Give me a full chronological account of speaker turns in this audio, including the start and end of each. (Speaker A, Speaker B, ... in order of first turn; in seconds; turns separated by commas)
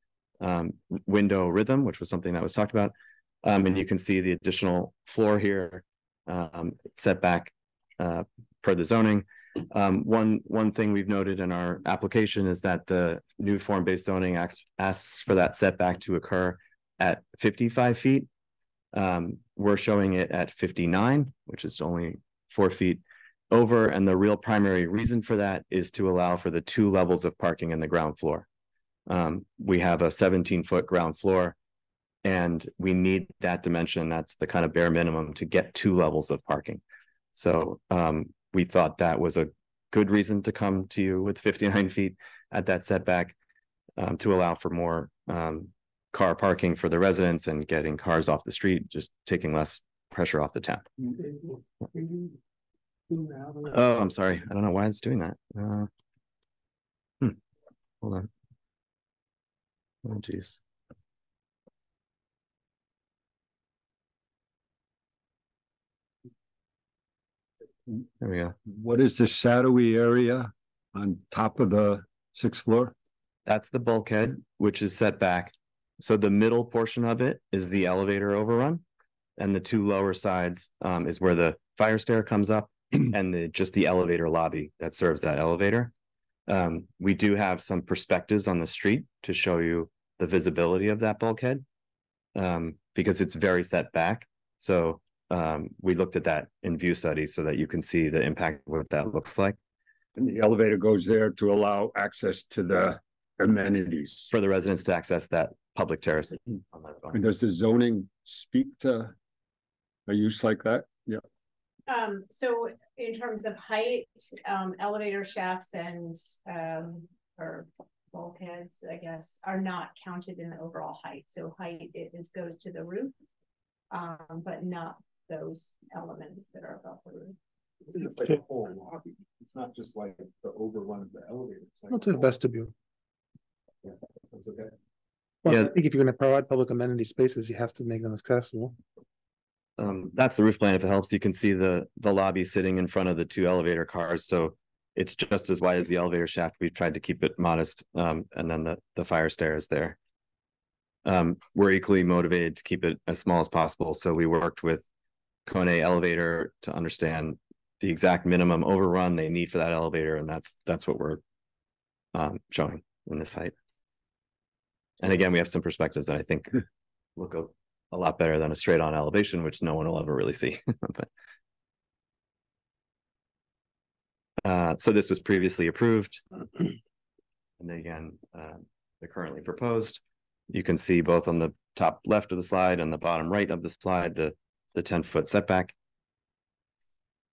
Speaker A: 0.4-18.3, Speaker A: 18.9-28.4, Speaker A: 29.1-31.6, Speaker A: 32.2-36.8, Speaker A: 37.3-43.4, Speaker A: 44.0-50.9, Speaker B: 53.1-53.5, Speaker A: 53.7-55.9, Speaker A: 58.0-58.3, Speaker A: 60.0-60.6, Speaker A: 68.2-68.5, Speaker C: 68.7-72.9, Speaker A: 73.5-78.8, Speaker A: 79.4-85.9, Speaker A: 86.5-91.6, Speaker A: 92.3-99.6, Speaker C: 100.2-104.3, Speaker A: 104.3-107.2, Speaker C: 107.1-109.1, Speaker C: 110.1-111.2, Speaker D: 111.9-123.1, Speaker D: 123.9-127.4, Speaker B: 127.8-132.3, Speaker E: 131.9-132.7, Speaker B: 133.8-134.7, Speaker E: 135.4-138.7, Speaker A: 135.4-135.7, Speaker A: 139.8-150.0, Speaker A: 151.0-154.8, Speaker A: 155.4-161.2, Speaker A: 162.1-163.5, Speaker A: 165.0-166.6, Speaker A: 167.2-171.1, Speaker A: 174.4-176.2, Speaker A: 177.6-185.7